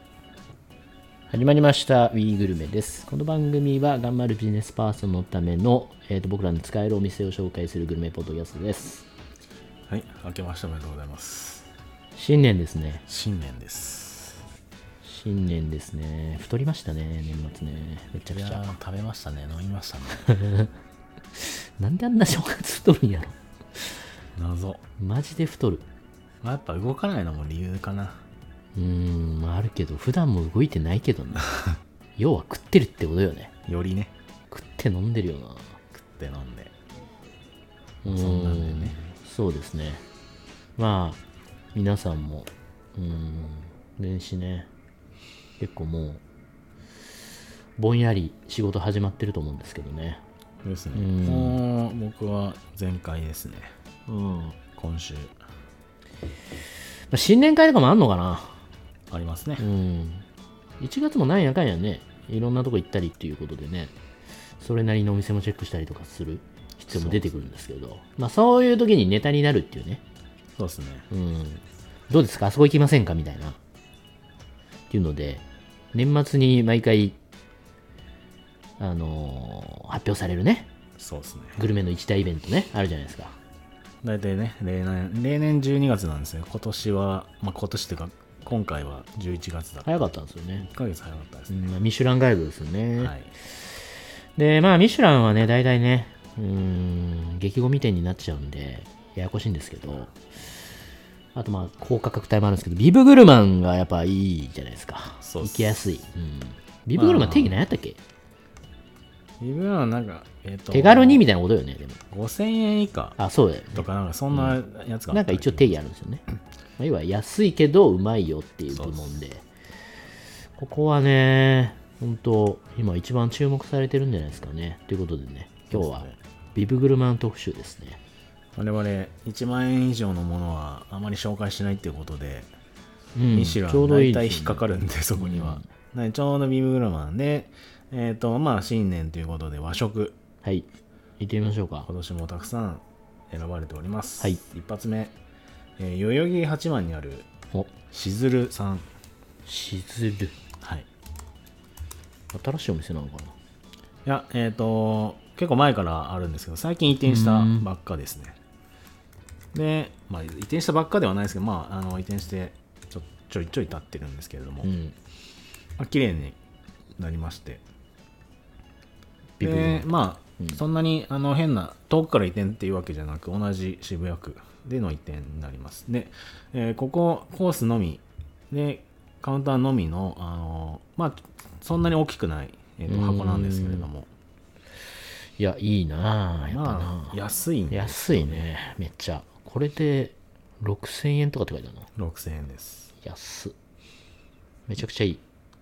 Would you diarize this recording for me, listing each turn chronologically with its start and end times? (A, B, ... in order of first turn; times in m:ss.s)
0:01.3-0:09.0 A
0:09.9-0:11.7 B
0:12.2-0:13.0 A
0:13.1-0:14.4 B
0:15.0-0:18.7 A
0:18.3-0:20.4 B
0:20.3-0:20.7 A
0:21.3-0:24.0 A
0:24.4-0:24.8 B
0:25.0-0:25.8 A
0:26.4-0:28.2 B
0:28.7-0:31.5 A
0:32.2-0:33.5 A
0:33.7-0:34.1 B
0:34.5-0:35.8 A
0:35.9-0:36.7 B
0:38.0-0:40.0 A
0:38.0-0:39.1 B
0:40.8-0:41.2 A
0:41.7-0:44.7 A
0:45.6-0:46.2 A
0:47.8-0:50.2 A
0:50.6-0:53.7 B
0:50.9-0:51.6 A
0:54.1-0:54.6 A
0:54.8-0:55.4 B
0:57.1-0:58.6 A
0:59.1-0:59.6 B
0:59.6-1:00.2 A
1:00.8-1:03.9 A
1:04.6-1:10.0 A
1:06.9-1:07.5 B
1:10.6-1:11.1 B
1:11.1-1:13.6 A
1:14.9-1:17.2 A
1:18.8-1:20.7 A
1:21.0-1:21.6 B
1:21.6-1:23.4 A
1:24.0-1:30.0 B
1:29.8-1:30.7 A
1:30.6-1:31.6 B
1:31.5-1:33.1 A
1:33.0-1:33.3 B
1:34.4-1:40.1 A
1:41.3-1:48.0 A
1:45.2-1:46.0 B
1:47.0-1:47.6 B
1:49.4-1:51.2 B
1:50.7-1:52.0 A
1:52.1-1:53.2 B
1:53.2-1:54.5 A
1:53.7-1:55.7 B
1:55.1-1:56.2 A
1:56.8-1:59.4 A
1:58.7-1:59.1 B
2:00.6-2:08.0 A
2:05.7-2:06.2 B
2:08.5-2:12.5 B
2:13.1-2:14.6 A
2:13.3-2:20.2 B
2:15.2-2:15.7 A
2:21.2-2:21.9 A
2:21.8-2:25.2 B
2:25.8-2:27.3 B
2:27.9-2:28.9 B
2:29.4-2:30.3 A
2:30.6-2:30.9 B
2:32.3-2:33.3 A
2:34.0-2:38.4 B
2:37.0-2:37.7 A
2:39.5-2:44.7 B
2:44.6-2:44.9 A
2:45.8-2:46.4 B
2:47.0-2:47.6 B
2:49.4-2:49.9 A
2:49.4-3:04.1 B
3:02.9-3:03.9 A
3:05.4-3:07.2 A
3:06.5-3:08.4 B
3:07.7-3:11.9 A
3:11.9-3:12.9 B
3:13.0-3:13.5 A
3:14.7-3:15.2 A